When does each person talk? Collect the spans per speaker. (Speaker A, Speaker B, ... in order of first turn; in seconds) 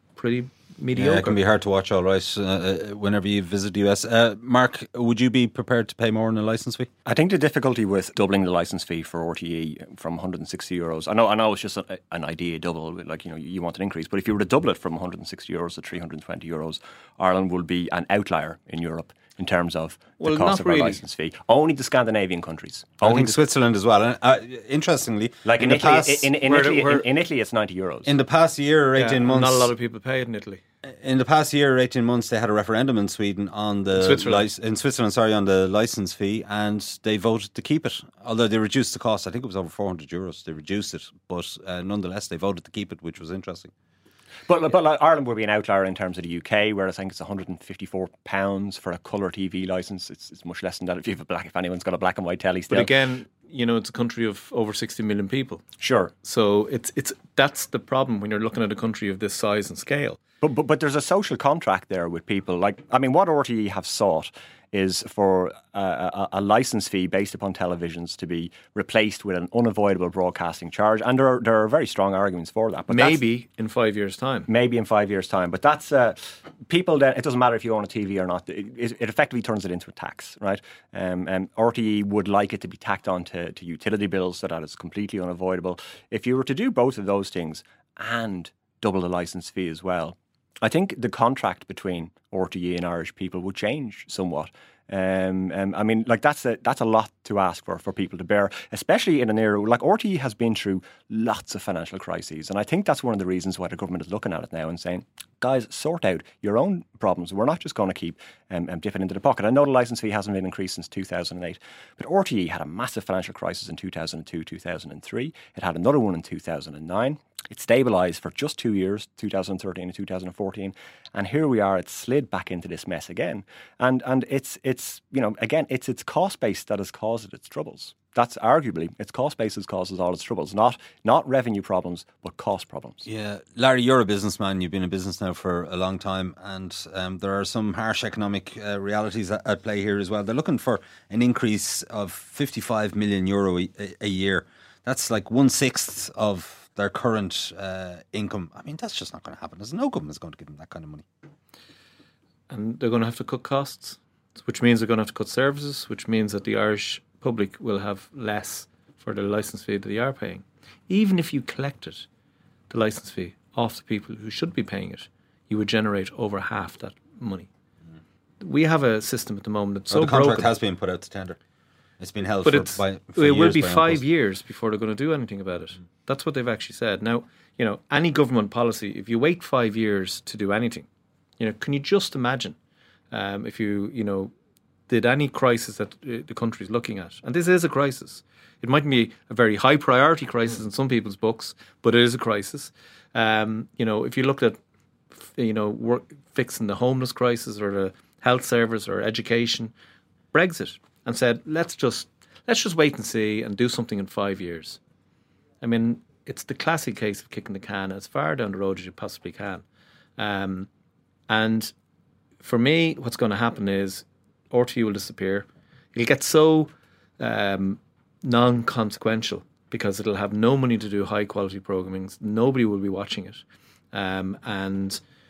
Speaker A: 0.2-1.4, 20.2-21.0, 26.4-27.1, 29.0-30.6, 34.0-34.5, 52.7-55.6, 56.2-60.2, 72.9-74.5, 152.5-162.1, 162.7-167.5, 168.4-170.5, 172.4-180.9, 181.4-182.6, 183.1-184.3, 184.9-194.6, 195.3-199.7, 200.3-204.8, 205.6-209.6, 210.2-210.7, 211.3-211.7, 212.4-225.0
Speaker B: 0.9-6.9, 23.0-26.3, 28.1-29.7, 30.9-43.7, 133.1-151.1, 169.9-171.4, 172.0-174.0
Speaker C: 7.0-23.4, 25.4-28.1, 44.5-52.9, 55.8-56.1, 60.4-73.2, 74.5-133.1